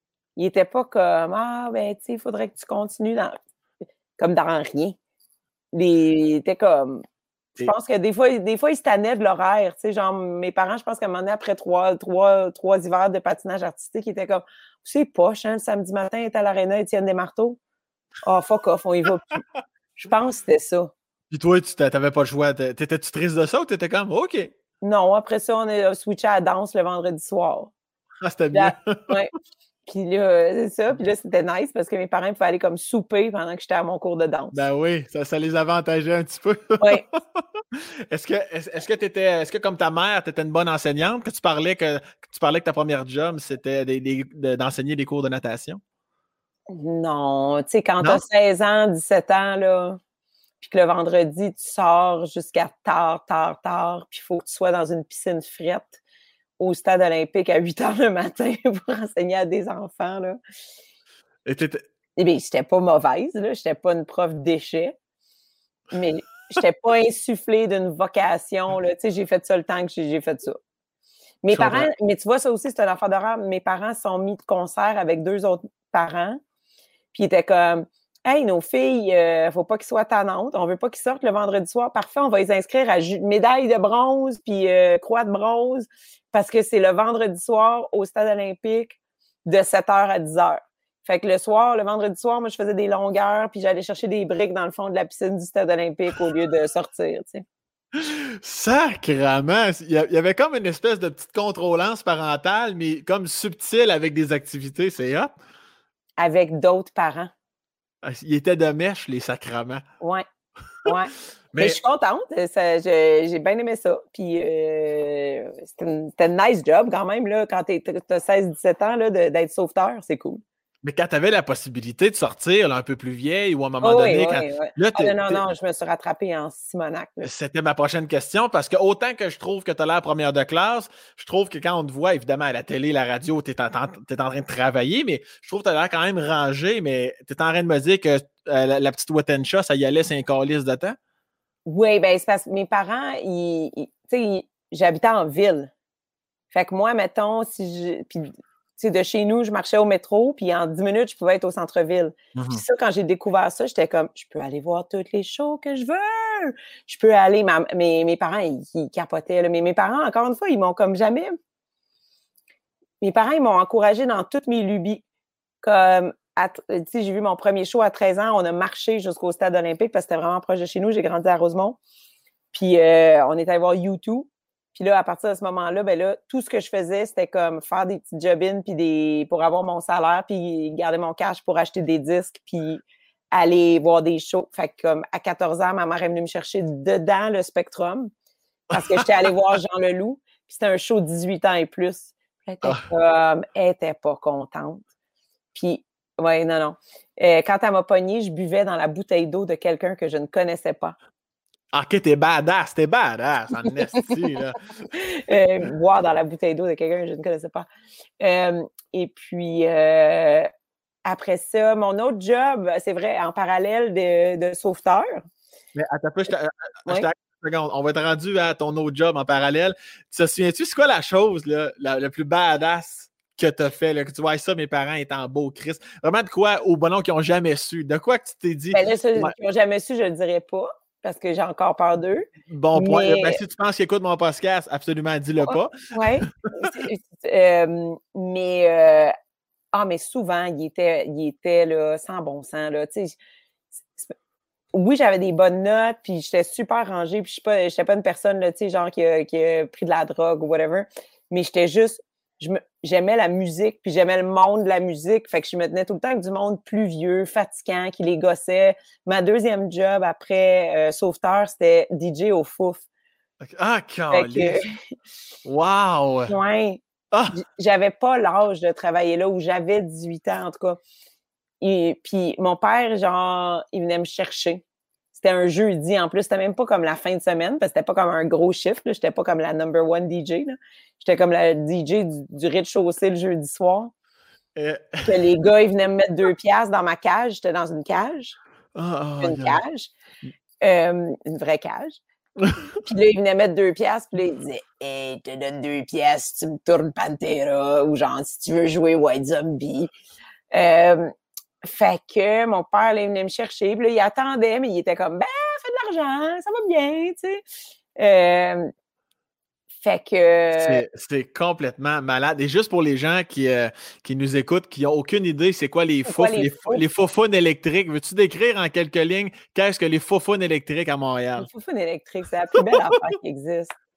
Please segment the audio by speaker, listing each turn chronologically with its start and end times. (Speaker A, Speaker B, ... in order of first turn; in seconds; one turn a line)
Speaker A: 0.3-3.4
Speaker A: 4.2-5.0
Speaker A: 5.7-7.0
Speaker A: 7.6-17.6
Speaker A: 18.2-19.4
Speaker A: 19.9-20.9
Speaker B: 21.3-24.5
Speaker A: 24.8-27.7
Speaker B: 28.2-29.2
Speaker A: 28.5-29.3
Speaker A: 29.9-34.6
Speaker B: 34.5-45.8
Speaker A: 36.8-37.0
Speaker A: 46.7-50.0
Speaker A: 50.6-56.0
Speaker A: 56.6-60.4
Speaker B: 61.4-61.8
Speaker A: 62.2-65.0
Speaker A: 65.9-70.6
Speaker A: 71.4-76.4
Speaker B: 71.5-71.9
Speaker A: 77.1-97.5
Speaker B: 97.9-105.3
Speaker A: 106.2-107.3
Speaker B: 108.0-109.8
Speaker A: 110.8-120.4
Speaker B: 111.5-111.8
Speaker B: 120.8-125.4
Speaker A: 123.8-127.3
Speaker B: 127.2-140.9
Speaker A: 141.7-145.7
Speaker A: 146.5-161.3
Speaker B: 152.3-152.6
Speaker A: 163.0-165.0
Speaker A: 165.6-171.8
Speaker A: 172.5-188.1
Speaker B: 188.7-189.3
Speaker A: 188.7-194.8
Speaker A: 195.5-200.9
Speaker B: 201.7-204.6
Speaker A: 203.9-204.3
Speaker A: 204.9-207.7
Speaker A: 208.2-210.5
Speaker A: 211.1-215.2
Speaker B: 215.7-229.3
Speaker A: 228.7-233.4
Speaker B: 232.5-236.8
Speaker A: 235.4-239.1
Speaker A: 239.7-243.2
Speaker A: 244.7-262.8
Speaker B: 263.4-264.6
Speaker A: 264.1-264.8
Speaker B: 265.4-266.3
Speaker A: 266.3-270.8
Speaker A: 271.6-274.6
Speaker A: 275.1-283.9
Speaker B: 284.6-285.3
Speaker A: 285.0-288.4
Speaker B: 288.7-289.6
Speaker A: 289.2-289.9
Speaker A: 290.6-292.0
Speaker A: 292.8-299.9
Speaker A: 300.5-301.1
Speaker A: 301.6-307.4
Speaker A: 308.0-308.7
Speaker A: 309.8-310.8
Speaker B: 310.5-321.5
Speaker A: 316.0-316.8
Speaker A: 321.4-323.7